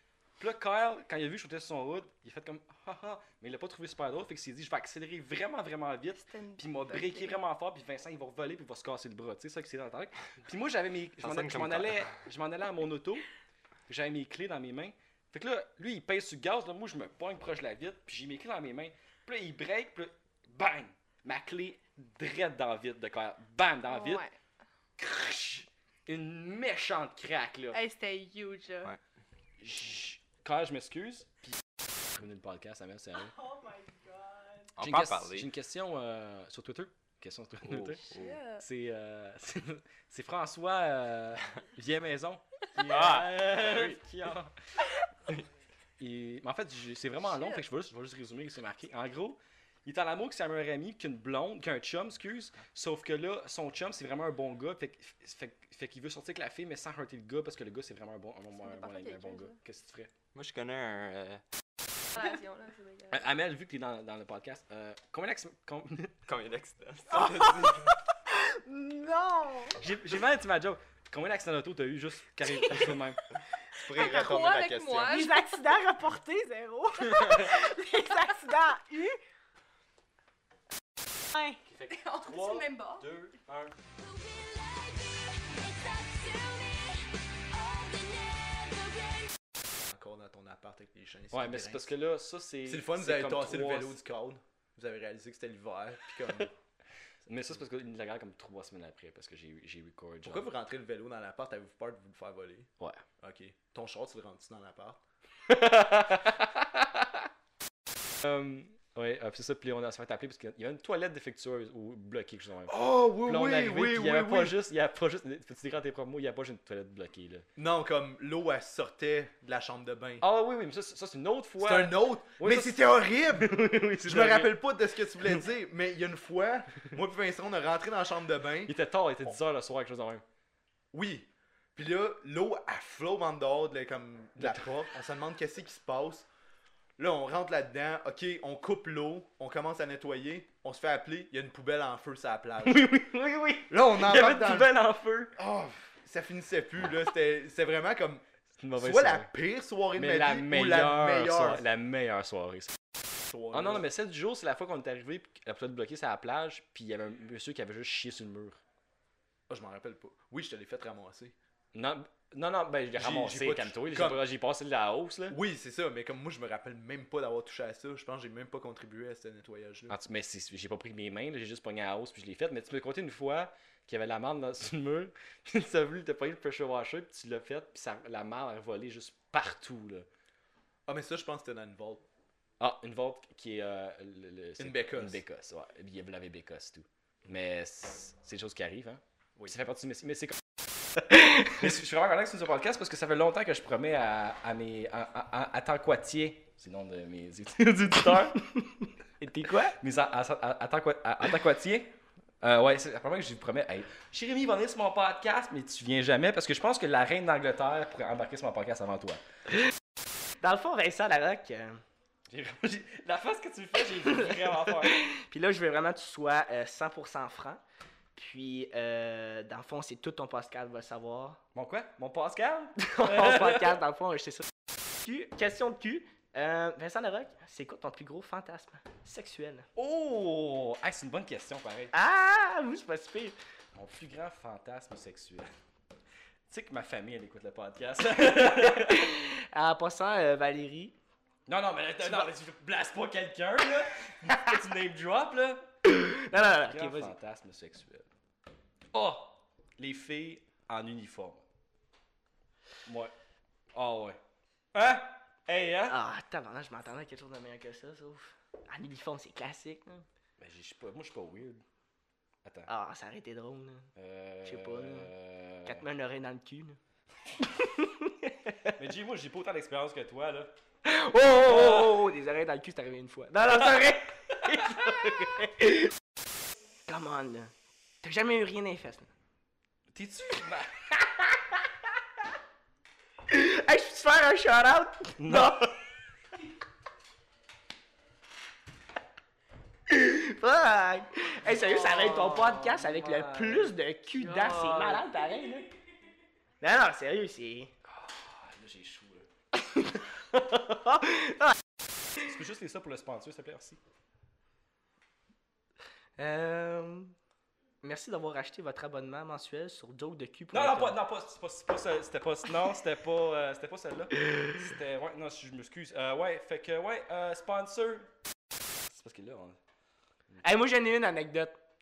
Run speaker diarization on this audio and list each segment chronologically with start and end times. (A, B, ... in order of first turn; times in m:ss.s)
0:00.4-0:13.2 A
0:06.1-0:07.4 B
0:11.2-0:12.2 C
0:13.9-0:24.2 A
0:23.9-0:24.3 B
0:25.0-0:27.8 A
0:27.7-0:28.9 B
0:29.6-0:31.6 A
0:32.1-0:33.3 A
0:34.8-0:35.5 C
0:34.8-0:44.5 A
0:37.7-0:38.4 C
0:38.1-0:38.6 B
0:42.9-0:44.0 C
0:46.0-1:00.1 A
0:58.6-0:59.6 B
1:00.3-1:01.4 C
1:02.2-1:03.2 B
1:03.1-1:06.2 A
1:06.3-1:07.9 C
1:07.4-1:07.7 D
1:08.3-1:09.8 D
1:09.8-1:13.2 A
1:13.8-1:15.2 E
1:13.9-1:15.4 B
1:15.1-1:16.2 F
1:15.2-1:19.2 D
1:17.1-1:18.4 F
1:21.4-1:21.6 D
1:21.7-1:23.7 A
1:21.9-1:23.1 B
1:24.4-1:24.9 D
1:25.8-1:26.6 D
1:29.9-1:31.9 E
1:31.3-1:34.0 A
1:32.7-1:36.5 E
1:37.3-1:40.5 A
1:40.2-1:42.7 E
1:43.2-1:45.0 E
1:45.5-1:47.3 A
1:48.2-1:57.5 A
1:52.7-1:54.6 E
1:57.6-2:00.2 E
2:00.2-2:02.8 A
2:01.6-2:08.7 E
2:03.6-2:04.5 A
2:08.7-2:10.2 A
2:10.9-2:16.3 E
2:14.4-2:14.6 A
2:17.0-2:22.9 E
2:22.7-2:25.4 A
2:23.7-2:24.7 E
2:25.4-2:28.2 E
2:28.6-2:29.3 A
2:28.8-2:31.6 E
2:29.9-2:32.8 A
2:33.3-2:33.8 E
2:33.5-2:38.6 A
2:39.5-2:41.3 E
2:41.7-2:45.4 A
2:43.0-2:44.2 E
2:45.3-2:49.9 E
2:49.9-3:00.1 A
3:00.9-3:02.1 E
3:02.6-3:10.4 A
3:04.6-3:05.2 E
3:11.0-3:18.5 A
3:19.2-3:19.8 F
3:19.8-3:29.2 A
3:30.4-3:31.8 F
3:32.3-3:35.0 A
3:34.1-3:37.6 F
3:38.2-3:41.4 F
3:41.6-3:43.8 A
3:42.8-3:44.5 F
3:45.0-3:49.7 F
3:49.8-3:51.9 A
3:51.9-3:53.4 F
3:53.8-3:55.5 A
3:56.5-3:59.2 A
3:58.7-4:01.0 F
4:01.5-4:05.7 A
4:02.0-4:02.3 F
4:05.8-4:07.2 F
4:06.3-4:08.1 A
4:08.9-4:11.4 A
4:12.8-4:13.1 A
4:13.7-4:14.2 A
4:14.7-4:16.0 A
4:15.9-4:20.1 F
4:20.4-4:21.6 A
4:22.4-4:22.7 A
4:22.7-4:23.9 F
4:24.0-4:25.8 A
4:24.4-4:25.1 F
4:25.6-4:26.8 F
4:27.6-4:28.7 F
4:28.7-4:30.6 A
4:30.8-4:35.9 F
4:31.4-4:32.1 A
4:36.9-4:39.1 F
4:39.9-4:41.1 A
4:43.3-4:45.7 F
4:45.2-4:45.8 A
4:49.9-4:55.7 F
4:51.4-4:55.3 A
4:56.6-4:57.7 F
4:57.9-4:59.3 A
4:59.8-5:01.5 F
5:02.2-5:03.8 A
5:06.2-5:07.2 F
5:07.8-5:11.0 F
5:10.5-5:18.1 A
5:18.9-5:19.6 A
5:20.4-5:21.6 F